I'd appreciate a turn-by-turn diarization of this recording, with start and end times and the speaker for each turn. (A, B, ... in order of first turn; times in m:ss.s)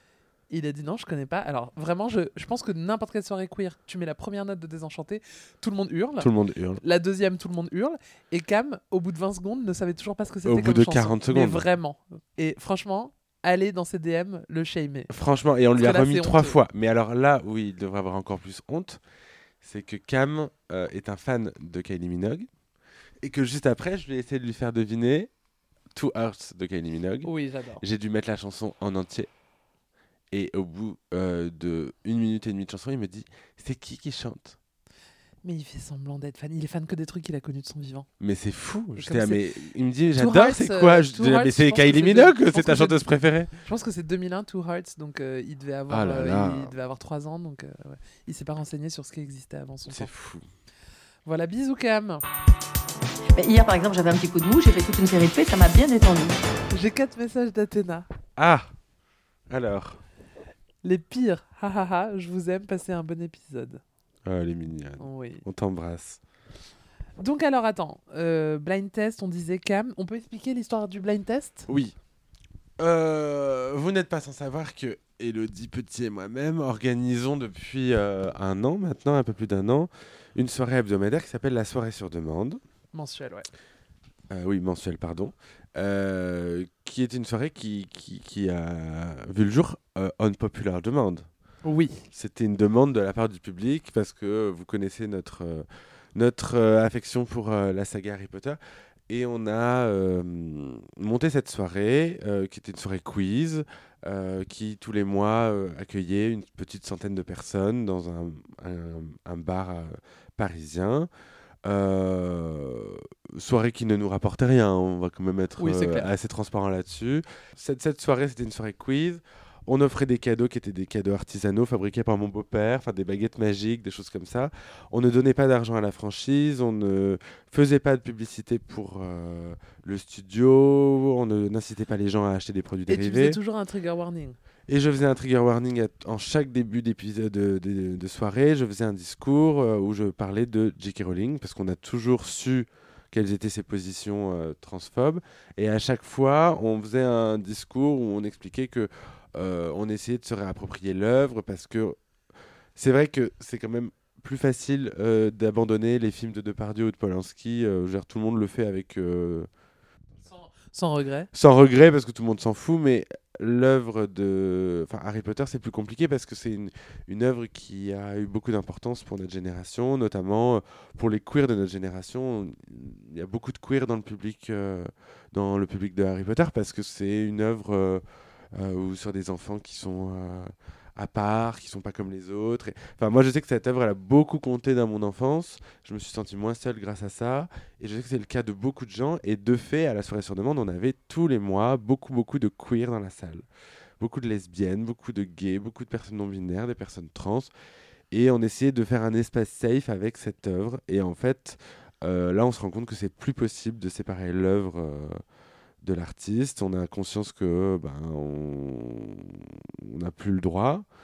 0:00.5-0:15.1 A
0:06.2-0:06.8 B
0:10.4-0:11.7 B
0:15.1-0:19.0 B
0:15.8-0:16.6 A
0:19.6-0:22.5 B
0:23.2-0:25.3 B
0:25.9-0:29.3 B
0:27.2-0:27.8 A
0:30.3-0:34.6 B
0:35.4-0:38.1 A
0:38.2-0:43.6 B
0:39.0-0:39.4 A
0:40.2-0:43.0 A
0:43.6-0:50.1 A
0:45.9-0:46.7 B
0:49.9-0:50.5 B
0:51.3-0:52.2 A
0:53.4-0:56.4 C
0:56.7-0:58.1 A
0:58.4-0:58.7 B
0:59.5-1:00.0 B
1:00.8-1:03.8 A
1:04.2-1:06.2 B
1:05.0-1:05.4 A
1:07.2-1:11.7 A
1:11.7-1:12.0 B
1:12.8-1:22.6 B
1:22.9-1:23.5 A
1:24.3-1:31.3 B
1:31.6-1:32.0 A
1:32.1-1:51.1 B
1:51.6-2:13.4 B
1:55.6-1:56.1 A
2:12.9-2:14.4 A
2:14.7-2:32.0 B
2:32.8-2:39.5 B
2:40.2-2:41.3 A
2:41.3-3:13.5 B
3:14.0-3:17.5 B
3:18.1-3:25.2 B
3:25.8-3:30.9 B